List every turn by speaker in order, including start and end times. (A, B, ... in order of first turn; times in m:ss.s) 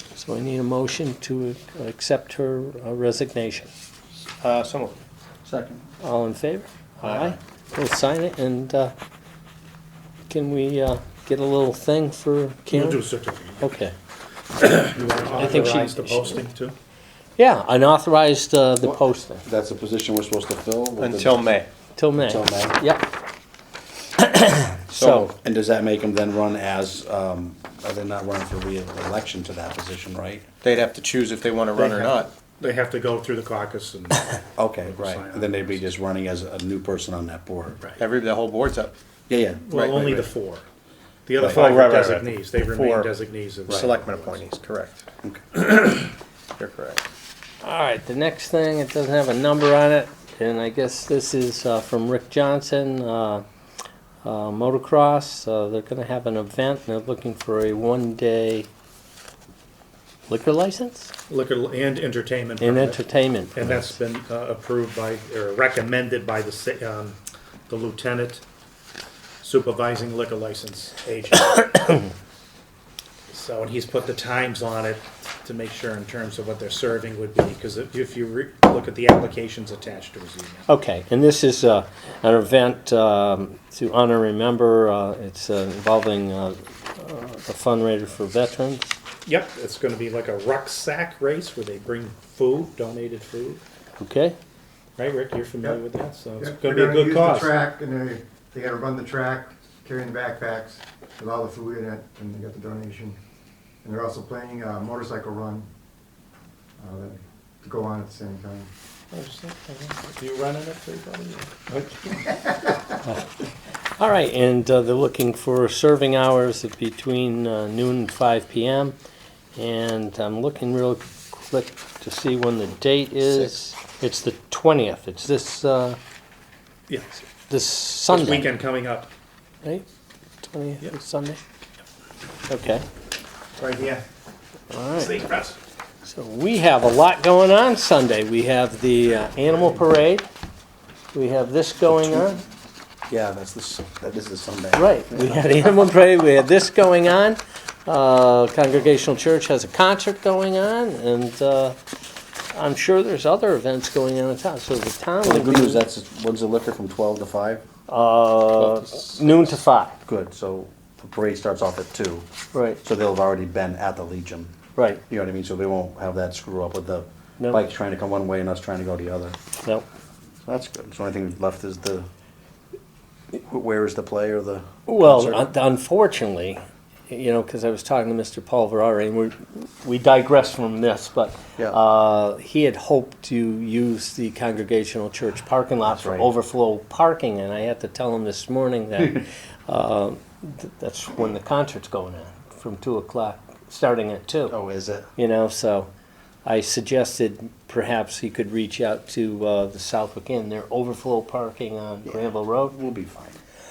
0:00.1-0:03.7 A
0:04.4-0:05.0 B
0:05.4-0:05.9 C
0:06.0-0:08.9 A
0:07.0-0:07.4 B
0:10.3-0:13.0 A
0:12.7-0:13.8 D
0:13.6-0:13.9 A
0:14.6-0:16.7 D
0:15.4-0:16.4 A
0:17.4-0:19.4 A
0:18.8-0:21.6 C
0:21.0-0:21.7 B
0:22.0-0:23.0 A
0:22.2-0:22.8 C
0:24.2-0:25.3 A
0:24.9-0:25.3 B
0:25.4-0:30.5 C
0:30.6-0:32.3 B
0:31.7-0:35.8 D
0:34.6-0:37.8 C
0:38.0-0:38.9 B
0:39.3-0:39.6 C
0:39.7-0:40.6 D
0:39.7-0:40.3 B
0:41.2-0:44.4 D
0:41.4-0:43.1 B
0:43.7-0:45.0 B
0:46.6-0:47.0 B
0:47.6-0:53.4 A
0:54.2-0:58.7 A
1:00.3-1:01.1 A
1:01.3-1:03.0 D
1:02.6-1:04.0 A
1:03.5-1:08.4 D
1:09.4-1:11.8 D
1:13.3-1:20.6 D
1:20.7-1:28.9 A
1:29.2-1:33.6 D
1:34.0-1:34.4 A
1:35.0-1:37.6 D
1:36.4-1:43.2 E
1:43.8-1:45.7 E
1:46.8-1:48.7 E
1:49.1-1:52.3 D
1:54.0-1:59.0 A
1:59.6-2:06.0 A
2:06.9-2:07.2 D
2:07.5-2:08.5 A
2:08.1-2:09.1 D
2:10.4-2:11.4 A
2:12.5-2:12.8 A
2:13.6-2:14.0 D
2:14.7-2:15.3 A
2:14.9-2:15.6 D
2:16.0-2:20.3 A
2:21.1-2:22.4 A
2:23.1-2:25.4 C
2:24.7-2:31.8 A
2:32.5-2:35.8 A
2:35.2-2:37.6 C
2:37.9-2:40.0 A
2:38.5-2:39.6 B
2:40.0-2:42.3 C
2:42.5-2:42.8 A
2:42.8-2:44.5 C
2:44.7-2:45.0 A
2:45.1-2:49.4 C
2:50.4-2:52.1 C
2:53.3-2:55.4 C
2:54.9-3:14.6 A
3:05.8-3:06.3 C
3:14.5-3:15.1 C
3:15.2-3:15.9 A
3:16.4-3:22.8 A
3:22.1-3:23.4 C